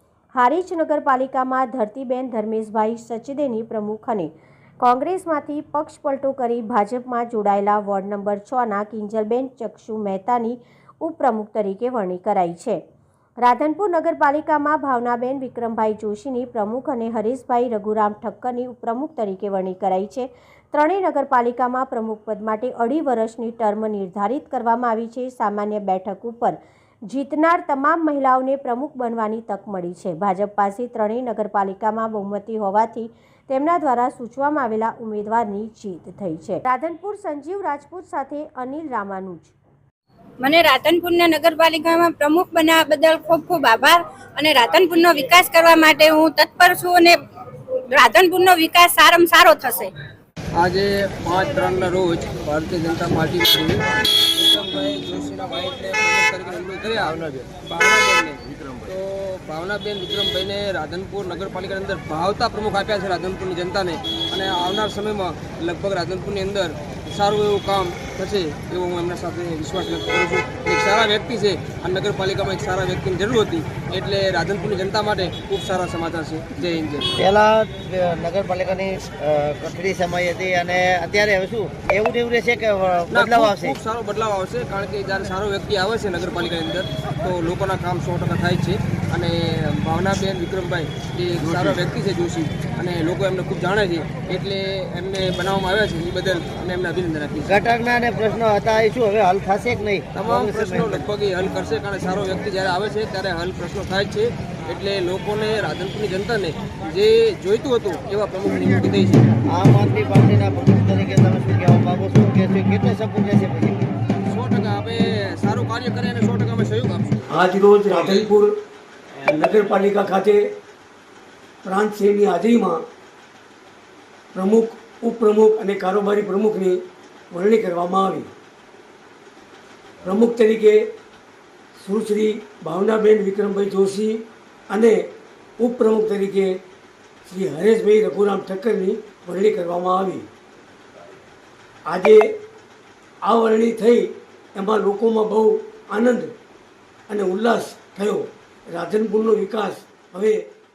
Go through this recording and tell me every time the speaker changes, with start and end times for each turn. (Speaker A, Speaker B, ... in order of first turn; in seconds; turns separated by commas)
Speaker A: 0.3-12.8, Speaker A: 13.4-39.5, Speaker B: 40.4-47.2, Speaker B: 47.9-49.9, Speaker C: 50.6-53.8, Speaker C: 54.3-77.1, Speaker D: 77.2-83.8, Speaker C: 83.1-97.6, Speaker D: 97.4-101.0, Speaker C: 100.1-109.3, Speaker D: 109.5-113.9, Speaker C: 114.3-117.3, Speaker E: 117.3-118.5, Speaker C: 117.9-118.2, Speaker E: 119.2-120.4, Speaker E: 121.6-122.8, Speaker E: 124.3-128.3, Speaker E: 130.0-130.8, Speaker E: 131.7-135.0, Speaker E: 135.6-136.6, Speaker E: 137.2-140.3, Speaker E: 141.9-142.2, Speaker E: 143.2-146.3, Speaker E: 147.1-150.5